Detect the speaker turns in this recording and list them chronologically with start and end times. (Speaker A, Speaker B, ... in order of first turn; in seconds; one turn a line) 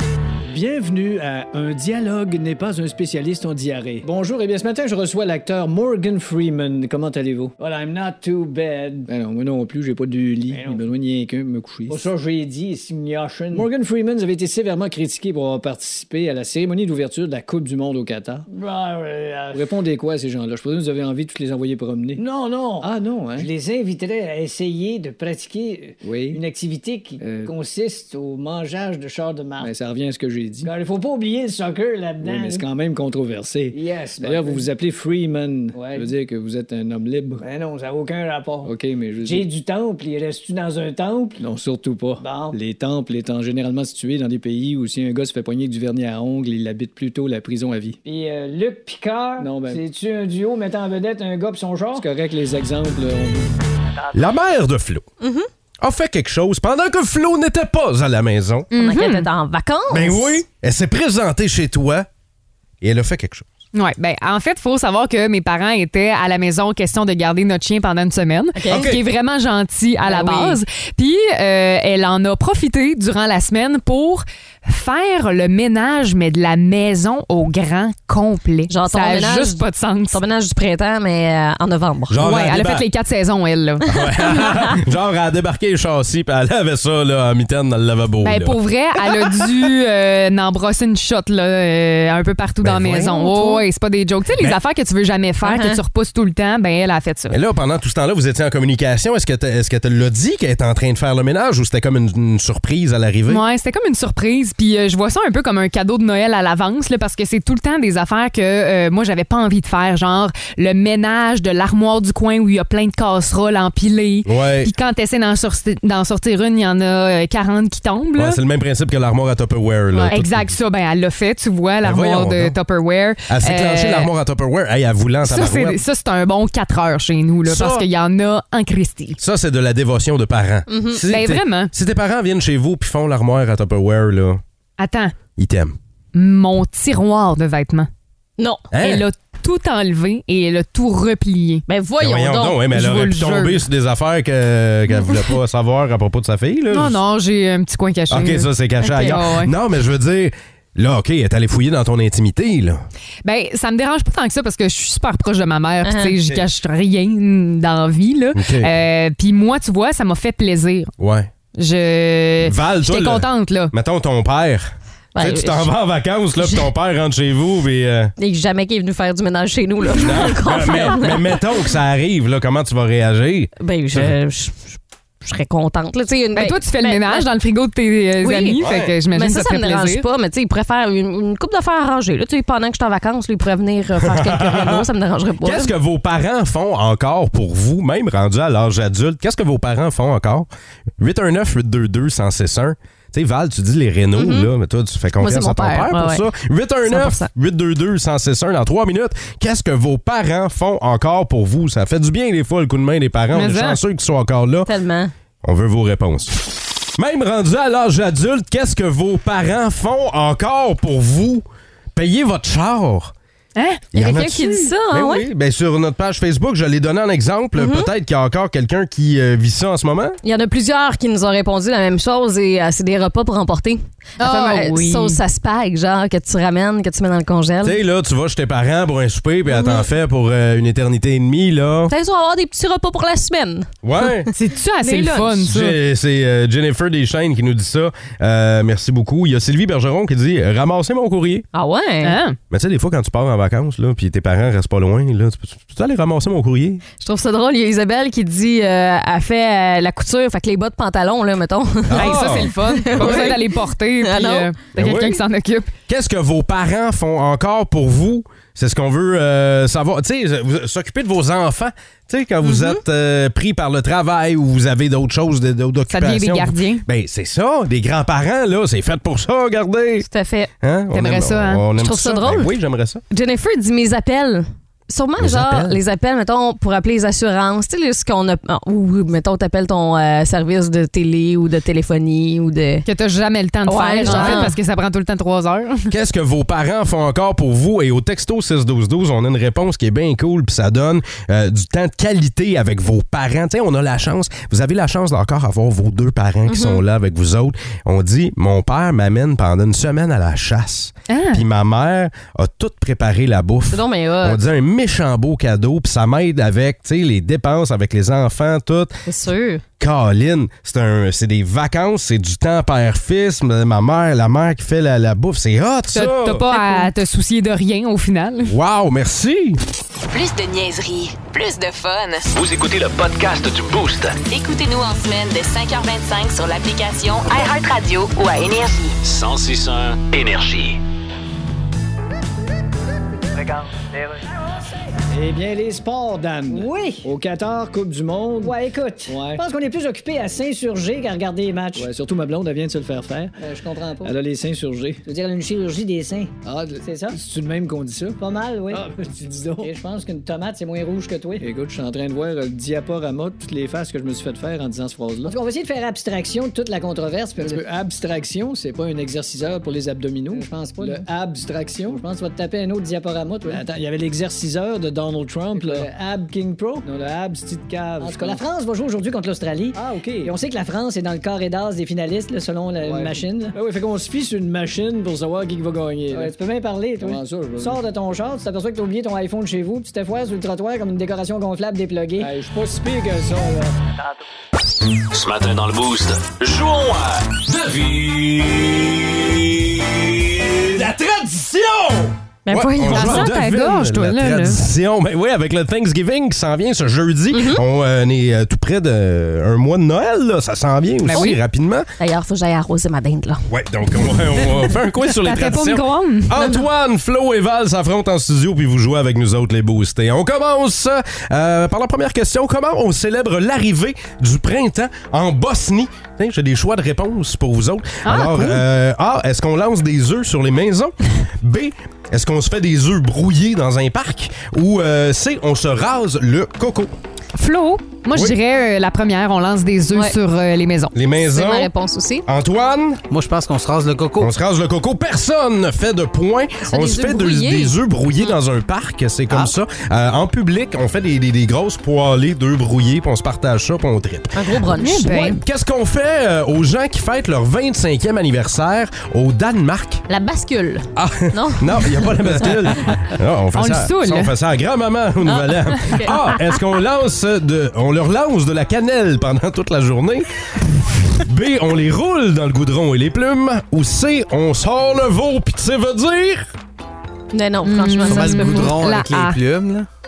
Speaker A: 0.5-7.6
Speaker B: 4.0-5.4
Speaker B: 7.6-9.1
Speaker A: 9.1-12.1
Speaker B: 10.5-10.8
Speaker B: 11.9-13.7
Speaker A: 13.5-18.4
Speaker B: 18.5-19.8
Speaker A: 19.5-22.3
Speaker B: 22.1-29.7
Speaker A: 22.8-23.5
Speaker A: 26.0-26.4
Speaker A: 27.2-27.5
Speaker A: 29.6-30.7
Speaker B: 30.6-32.7
Speaker A: 32.2-37.4
Speaker B: 33.7-34.7
Speaker B: 35.7-36.1
Speaker B: 37.4-41.4
Speaker A: 38.6-39.5
Speaker A: 41.4-48.0
Speaker B: 42.2-42.6
Speaker B: 48.0-52.1
Speaker A: 49.4-49.8
Speaker A: 51.9-53.5
Speaker C: 54.1-55.0
Speaker D: 55.2-55.5
Speaker C: 55.8-58.7
Speaker E: 58.7-59.3
Speaker D: 58.7-60.4
Speaker C: 59.9-62.1
Speaker C: 62.8-63.5
Speaker E: 63.7-80.2
Speaker D: 68.5-68.9
Speaker C: 68.7-69.0
Speaker D: 70.0-70.6
Speaker D: 78.7-82.2
Speaker C: 82.1-82.8
Speaker E: 82.2-83.8
Speaker C: 83.8-88.6
Speaker D: 84.0-84.5
Speaker E: 88.2-97.4
Speaker C: 92.6-93.2
Speaker D: 93.1-93.6
Speaker D: 95.4-95.8
Speaker C: 97.3-103.4
Speaker E: 103.3-118.4
Speaker C: 114.2-114.7
Speaker C: 118.2-120.5
Speaker E: 120.1-124.1
Speaker C: 121.8-122.5
Speaker C: 123.3-125.8
Speaker E: 125.2-129.2
Speaker C: 127.4-127.9
Speaker C: 129.2-134.4
Speaker D: 130.7-131.0
Speaker E: 131.1-131.7
Speaker E: 134.8-135.1
Speaker C: 135.4-135.8
Speaker E: 136.1-137.9
Speaker D: 138.4-138.7
Speaker C: 138.7-139.0
Speaker E: 138.8-141.6
Speaker D: 141.7-142.7
Speaker C: 142.0-147.0
Speaker E: 142.7-143.7
Speaker D: 145.0-145.3
Speaker E: 146.7-149.5
Speaker C: 148.1-152.8
Speaker D: 148.8-149.2
Speaker E: 153.2-160.9
Speaker D: 155.8-156.2
Speaker C: 158.3-158.7
Speaker C: 161.0-161.3
Speaker E: 161.6-163.7
Speaker C: 162.4-168.1
Speaker D: 165.1-165.7
Speaker D: 166.4-166.7
Speaker D: 168.2-171.4
Speaker C: 169.9-174.1
Speaker D: 173.6-177.3
Speaker E: 176.3-180.0
Speaker D: 178.2-185.7
Speaker C: 178.6-178.9
Speaker C: 184.0-184.9
Speaker C: 185.4-190.5
Speaker C: 191.0-204.7
Speaker D: 194.2-194.5
Speaker D: 195.2-196.3
Speaker D: 196.9-197.3
Speaker E: 203.3-203.8
Speaker D: 204.7-205.1
Speaker C: 205.4-206.3
Speaker C: 206.9-213.1
Speaker E: 213.6-213.9
Speaker C: 213.9-220.2
Speaker D: 213.9-215.3
Speaker D: 217.6-217.9
Speaker D: 220.2-227.8
Speaker E: 224.2-225.2
Speaker C: 227.6-231.9
Speaker D: 229.5-229.8
Speaker D: 231.9-233.7
Speaker C: 233.8-234.3
Speaker E: 234.3-235.8
Speaker D: 234.8-235.4
Speaker C: 235.4-241.5
Speaker D: 241.5-242.2
Speaker E: 242.0-242.4
Speaker C: 242.5-246.8
Speaker D: 247.0-254.5
Speaker C: 251.9-253.4
Speaker E: 251.9-255.7
Speaker C: 254.8-255.2
Speaker C: 255.9-270.1
Speaker D: 262.4-262.8
Speaker E: 265.9-266.8
Speaker D: 270.1-270.5
Speaker C: 270.6-273.0
Speaker E: 270.9-271.6
Speaker D: 271.8-272.5
Speaker D: 273.1-282.9
Speaker C: 275.2-275.8
Speaker E: 282.9-285.9
Speaker D: 283.6-284.6
Speaker C: 284.0-284.5
Speaker C: 285.9-309.0
Speaker D: 296.5-296.8
Speaker E: 301.1-301.4
Speaker D: 303.7-304.4
Speaker D: 309.1-309.6
Speaker C: 309.8-316.5
Speaker E: 315.9-318.5
Speaker D: 316.5-316.9
Speaker C: 318.5-319.6
Speaker F: 320.1-322.3
Speaker G: 322.3-324.2
Speaker F: 324.3-328.9
Speaker G: 329.0-330.8
Speaker A: 335.1-338.5
Speaker B: 336.2-337.1
Speaker B: 338.3-341.9
Speaker A: 339.1-339.4
Speaker A: 341.7-343.4
Speaker B: 343.4-344.2
Speaker A: 344.0-345.0
Speaker B: 345.0-347.2
Speaker A: 346.4-349.7
Speaker B: 348.2-351.5
Speaker A: 351.4-355.4
Speaker B: 355.2-357.6
Speaker A: 357.4-362.0
Speaker B: 360.3-363.7
Speaker A: 363.4-365.9
Speaker B: 365.5-366.9
Speaker A: 366.8-368.4
Speaker B: 368.0-373.6
Speaker A: 369.7-370.3
Speaker A: 372.8-376.4
Speaker B: 376.1-382.3
Speaker A: 377.0-377.8
Speaker A: 382.2-383.7
Speaker G: 385.1-390.6
Speaker C: 390.6-401.9
Speaker D: 392.5-393.3
Speaker E: 392.9-394.6
Speaker D: 397.3-397.6
Speaker E: 401.0-401.4
Speaker D: 402.0-403.4
Speaker C: 403.5-426.9
Speaker E: 405.1-406.4
Speaker E: 418.0-418.6
Speaker E: 427.3-430.9
Speaker C: 430.9-431.7
Speaker D: 431.2-432.2
Speaker C: 432.2-433.0
Speaker H: 433.1-434.3
Speaker C: 434.2-450.1
Speaker D: 436.7-437.8
Speaker D: 444.3-445.2
Speaker E: 444.8-445.4
Speaker D: 450.1-452.9
Speaker C: 450.9-460.2
Speaker E: 453.5-454.3
Speaker D: 455.2-456.5
Speaker C: 460.8-466.5
Speaker D: 467.3-468.8
Speaker E: 467.6-469.4
Speaker H: 468.1-469.9